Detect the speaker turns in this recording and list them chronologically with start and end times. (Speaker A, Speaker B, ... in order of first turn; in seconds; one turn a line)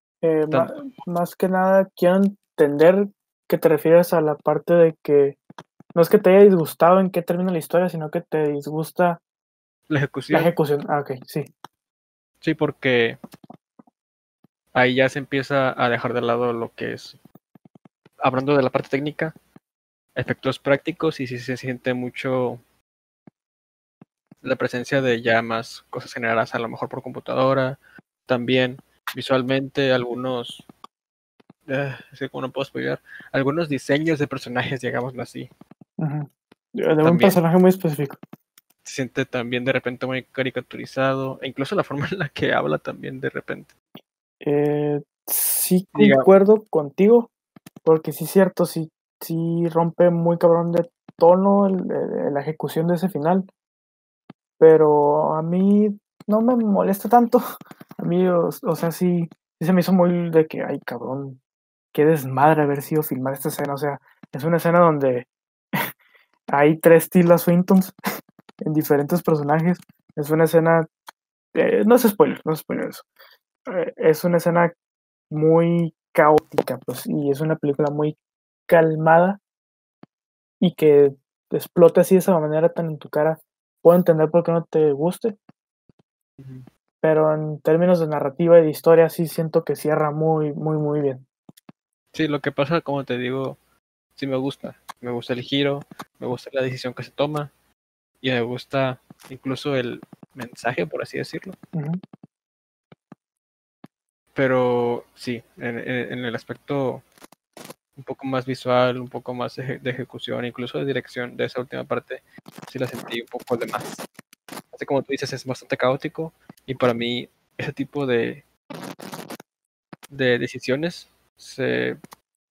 Speaker A: 0.2-5.4
Speaker B: 0.5-0.9
Speaker A: 5.9-9.2
Speaker B: 9.9-10.5
Speaker A: 10.3-11.5
Speaker B: 12.4-13.2
Speaker B: 14.7-17.2
Speaker B: 18.2-19.4
Speaker B: 20.1-22.6
Speaker B: 24.4-30.6
Speaker B: 31.7-35.5
Speaker A: 36.0-38.2
Speaker B: 37.0-37.4
Speaker B: 38.8-43.7
Speaker A: 44.4-47.3
Speaker B: 45.9-46.3
Speaker A: 47.8-53.5
Speaker A: 54.6-57.4
Speaker A: 58.0-61.4
Speaker A: 61.9-65.9
Speaker A: 66.5-68.0
Speaker A: 68.6-70.9
Speaker A: 71.5-73.0
Speaker A: 73.7-74.7
Speaker A: 75.3-78.2
Speaker A: 78.7-79.4
Speaker A: 80.6-85.3
Speaker B: 86.4-86.7
Speaker A: 87.0-91.2
Speaker B: 92.1-93.6
Speaker B: 94.2-97.5
Speaker B: 98.2-101.5
Speaker A: 101.7-102.0
Speaker B: 104.3-107.0
Speaker B: 108.0-114.0
Speaker B: 114.7-118.4
Speaker B: 120.1-122.0